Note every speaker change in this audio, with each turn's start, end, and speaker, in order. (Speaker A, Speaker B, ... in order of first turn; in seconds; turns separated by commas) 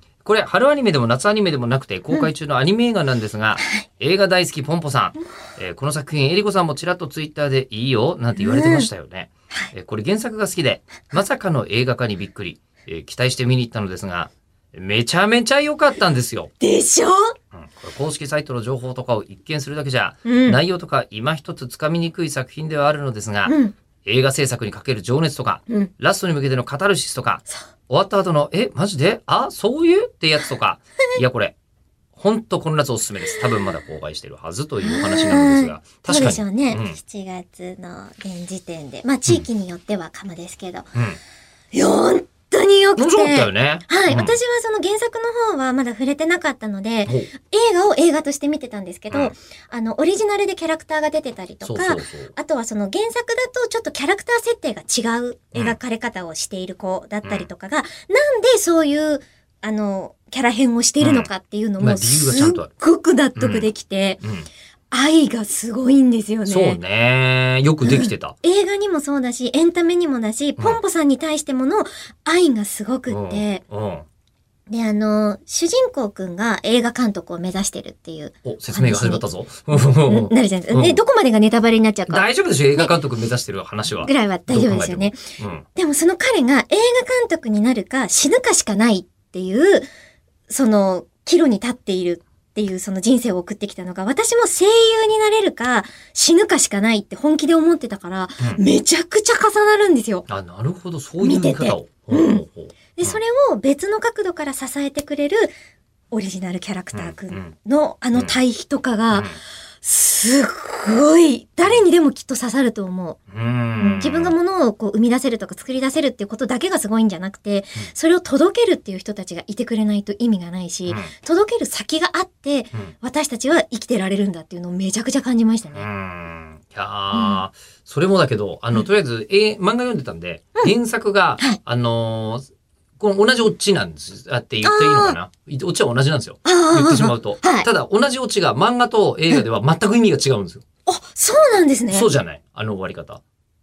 Speaker A: 0.2-16.5, Speaker B: 8.4-8.9, Speaker B: 16.6-17.3, Speaker A: 17.5-31.5, Speaker B: 20.2-20.6, Speaker B: 23.4-23.7, Speaker A: 32.1-37.0, Speaker B: 34.8-40.9, Speaker B: 41.7-64.2, Speaker A: 43.0-44.3, Speaker A: 51.6-52.3, Speaker A: 61.0-62.7, Speaker A: 63.4-63.7, Speaker A: 64.2-64.5, Speaker B: 64.9-66.8, Speaker A: 66.5-68.3, Speaker B: 67.8-73.6, Speaker A: 73.1-74.0, Speaker B: 74.7-82.9, Speaker A: 78.4-81.0, Speaker A: 82.1-85.7, Speaker B: 84.0-85.2, Speaker B: 85.8-89.9, Speaker B: 90.5-100.2, Speaker A: 100.3-103.2, Speaker B: 101.2-102.4, Speaker B: 103.0-105.5, Speaker B: 106.1-113.2, Speaker A: 106.9-107.5, Speaker A: 109.1-109.4, Speaker A: 113.3-114.3, Speaker B: 113.8-125.8, Speaker A: 120.9-121.1, Speaker A: 125.7-132.4, Speaker B: 127.1-127.4, Speaker A: 133.0-140.6, Speaker B: 134.6-135.2, Speaker B: 136.4-137.7, Speaker B: 140.8-142.1, Speaker A: 141.9-143.2